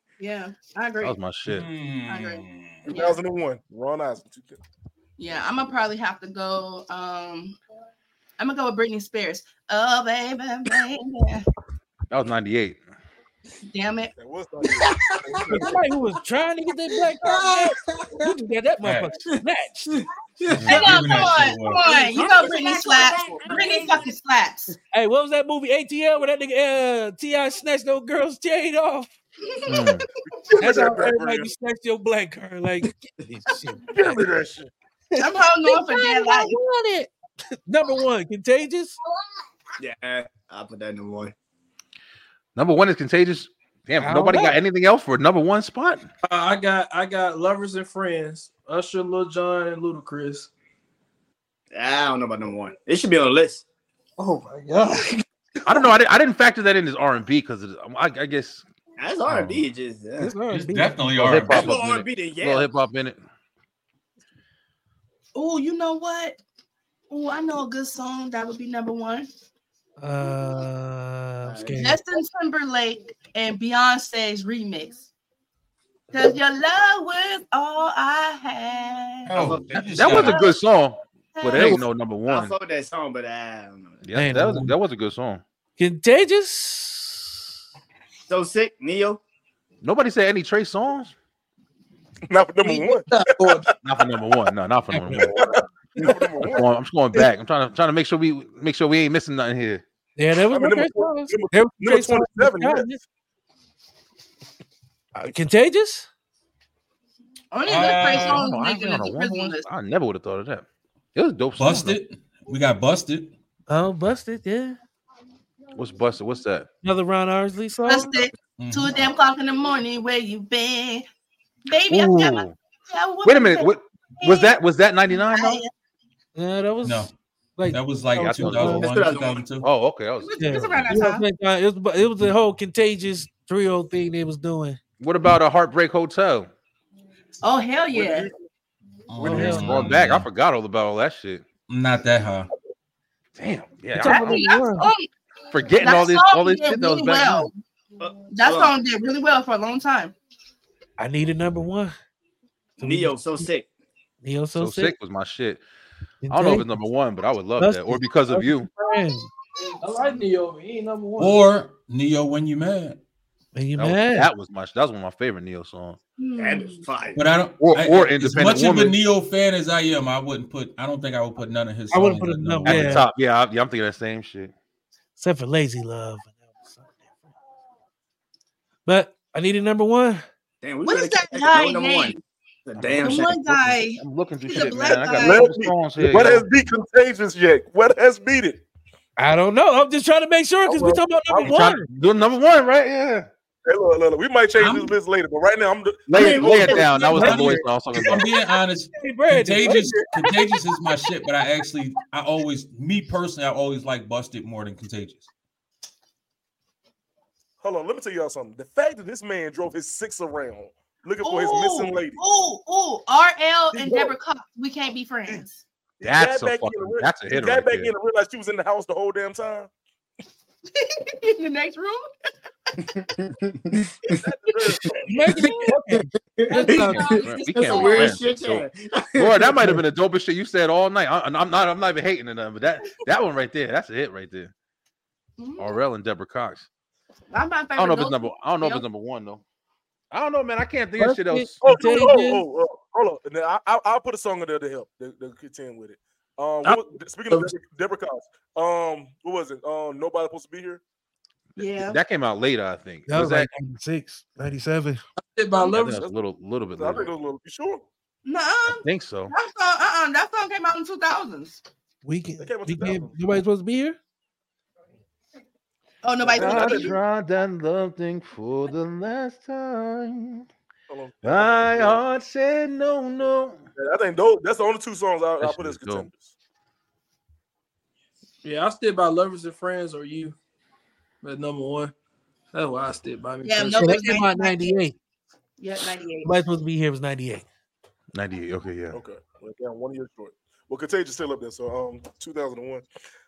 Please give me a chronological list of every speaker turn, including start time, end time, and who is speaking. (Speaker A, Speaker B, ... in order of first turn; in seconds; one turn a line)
Speaker A: 0.2-1.2
Speaker B: 1.0-1.7
Speaker C: 1.5-2.9
Speaker A: 2.1-3.2
Speaker D: 2.9-4.6
Speaker A: 5.2-7.6
Speaker A: 8.4-11.5
Speaker B: 12.1-12.8
Speaker A: 13.7-14.1
Speaker D: 14.2-15.8
Speaker E: 14.7-15.8
Speaker F: 15.5-20.0
Speaker E: 16.9-18.3
Speaker C: 18.8-19.1
Speaker E: 19.3-21.0
Speaker C: 20.5-21.8
Speaker B: 20.5-21.0
Speaker A: 20.7-24.8
Speaker E: 21.8-24.1
Speaker D: 23.2-23.8
Speaker F: 24.9-29.1
Speaker B: 29.7-30.1
Speaker D: 30.3-31.5
Speaker F: 30.6-34.3
Speaker D: 33.9-34.7
Speaker F: 35.1-37.1
Speaker A: 35.2-36.6
Speaker F: 37.7-39.0
Speaker E: 39.8-41.3
Speaker B: 42.5-46.1
Speaker F: 44.0-44.6
Speaker G: 46.2-50.5
Speaker E: 51.7-53.6
Speaker G: 54.2-55.9
Speaker B: 55.7-58.6
Speaker E: 59.0-60.3
Speaker C: 59.3-59.6
Speaker F: 60.2-61.1
Speaker C: 60.5-61.7
Speaker B: 61.2-63.2
Speaker E: 61.4-62.7
Speaker A: 65.3-66.4
Speaker A: 67.1-69.3
Speaker F: 70.0-72.0
Speaker E: 71.4-71.8
Speaker A: 71.7-75.1
Speaker A: 76.1-79.3
Speaker E: 79.3-80.3
Speaker C: 79.3-80.4
Speaker B: 80.0-82.5
Speaker A: 80.0-80.5
Speaker A: 81.4-81.8
Speaker E: 81.6-84.0
Speaker B: 84.0-85.4
Speaker F: 84.2-84.8
Speaker F: 85.8-87.4
Speaker E: 88.3-89.2
Speaker B: 89.8-91.1
Speaker D: 92.3-93.7
Speaker G: 92.6-93.7
Speaker B: 93.8-95.5
Speaker F: 94.9-95.3
Speaker D: 95.2-96.7
Speaker B: 96.5-99.8
Speaker F: 100.2-103.0
Speaker D: 100.5-102.9
Speaker F: 105.2-106.1
Speaker A: 107.5-109.7
Speaker C: 107.7-108.5
Speaker B: 107.8-112.0
Speaker C: 111.6-113.3
Speaker F: 113.7-114.8
Speaker B: 115.7-116.7
Speaker F: 116.8-118.1
Speaker A: 117.9-121.1
Speaker C: 118.6-119.0
Speaker A: 121.7-124.6
Speaker B: 121.9-122.5
Speaker B: 123.2-125.6
Speaker A: 125.1-125.7
Speaker F: 126.4-128.9
Speaker C: 126.8-127.1
Speaker C: 127.7-129.7
Speaker B: 128.2-128.9
Speaker E: 128.7-129.5
Speaker B: 129.6-131.0
Speaker A: 130.2-131.3
Speaker F: 130.4-134.8
Speaker B: 135.0-136.5
Speaker A: 137.4-138.3
Speaker D: 137.9-138.4
Speaker C: 139.1-140.3
Speaker B: 139.2-141.5
Speaker F: 139.2-139.9
Speaker C: 141.7-142.5
Speaker B: 143.4-144.5
Speaker F: 144.0-144.9
Speaker A: 144.0-145.1
Speaker B: 145.5-147.5
Speaker A: 145.8-147.5
Speaker E: 148.0-148.7
Speaker A: 148.3-150.2
Speaker F: 151.0-151.9
Speaker F: 152.8-153.4
Speaker E: 152.8-153.7
Speaker F: 154.2-154.9
Speaker B: 154.6-155.6
Speaker F: 156.2-156.7
Speaker B: 156.3-158.7
Speaker F: 157.6-159.3
Speaker G: 159.8-161.4
Speaker C: 161.2-163.0
Speaker F: 163.6-164.3
Speaker B: 163.8-166.0
Speaker A: 166.2-166.9
Speaker E: 166.4-167.2
Speaker C: 167.2-173.1
Speaker B: 167.6-169.0
Speaker F: 171.9-173.1
Speaker B: 172.7-174.5
Speaker F: 175.2-177.3
Speaker F: 178.9-180.2
Speaker E: 180.6-183.3
Speaker A: 180.8-182.2
Speaker B: 182.8-186.5
Speaker A: 183.0-185.5
Speaker D: 184.9-188.6
Speaker F: 189.2-191.9
Speaker D: 190.7-191.6
Speaker B: 191.4-193.3
Speaker D: 193.7-197.0
Speaker C: 194.6-195.0
Speaker B: 196.1-198.3
Speaker E: 196.1-197.5
Speaker C: 197.1-205.3
Speaker F: 199.0-199.9
Speaker D: 207.6-212.2
Speaker A: 211.2-215.6
Speaker D: 213.7-214.1
Speaker D: 216.0-219.7
Speaker B: 216.0-217.9
Speaker A: 220.7-222.1
Speaker E: 222.8-224.2
Speaker D: 224.1-225.3
Speaker F: 225.1-227.2
Speaker A: 225.2-225.7
Speaker E: 225.3-229.8
Speaker A: 226.5-228.2
Speaker B: 227.2-234.5
Speaker A: 235.4-235.8
Speaker B: 235.6-236.7
Speaker A: 237.3-238.8
Speaker B: 237.8-239.4
Speaker B: 240.1-241.6
Speaker F: 241.0-242.4
Speaker D: 241.6-250.8
Speaker G: 246.6-247.5
Speaker A: 251.6-252.0
Speaker B: 251.8-253.5
Speaker F: 253.1-255.0
Speaker G: 255.2-256.1
Speaker B: 255.7-257.1
Speaker D: 256.8-257.8
Speaker A: 258.2-261.6
Speaker B: 258.8-259.3
Speaker F: 262.0-264.0
Speaker D: 262.4-263.2
Speaker A: 266.0-266.9
Speaker D: 266.2-267.0
Speaker B: 266.4-270.5
Speaker D: 270.9-272.0
Speaker B: 271.2-273.6
Speaker D: 273.8-276.3
Speaker B: 275.4-276.1
Speaker G: 278.4-280.4
Speaker G: 281.2-281.9
Speaker G: 282.5-283.9
Speaker A: 283.4-284.8
Speaker F: 283.8-285.0
Speaker A: 285.6-286.4
Speaker F: 286.2-287.4
Speaker B: 288.1-289.0
Speaker D: 288.9-292.9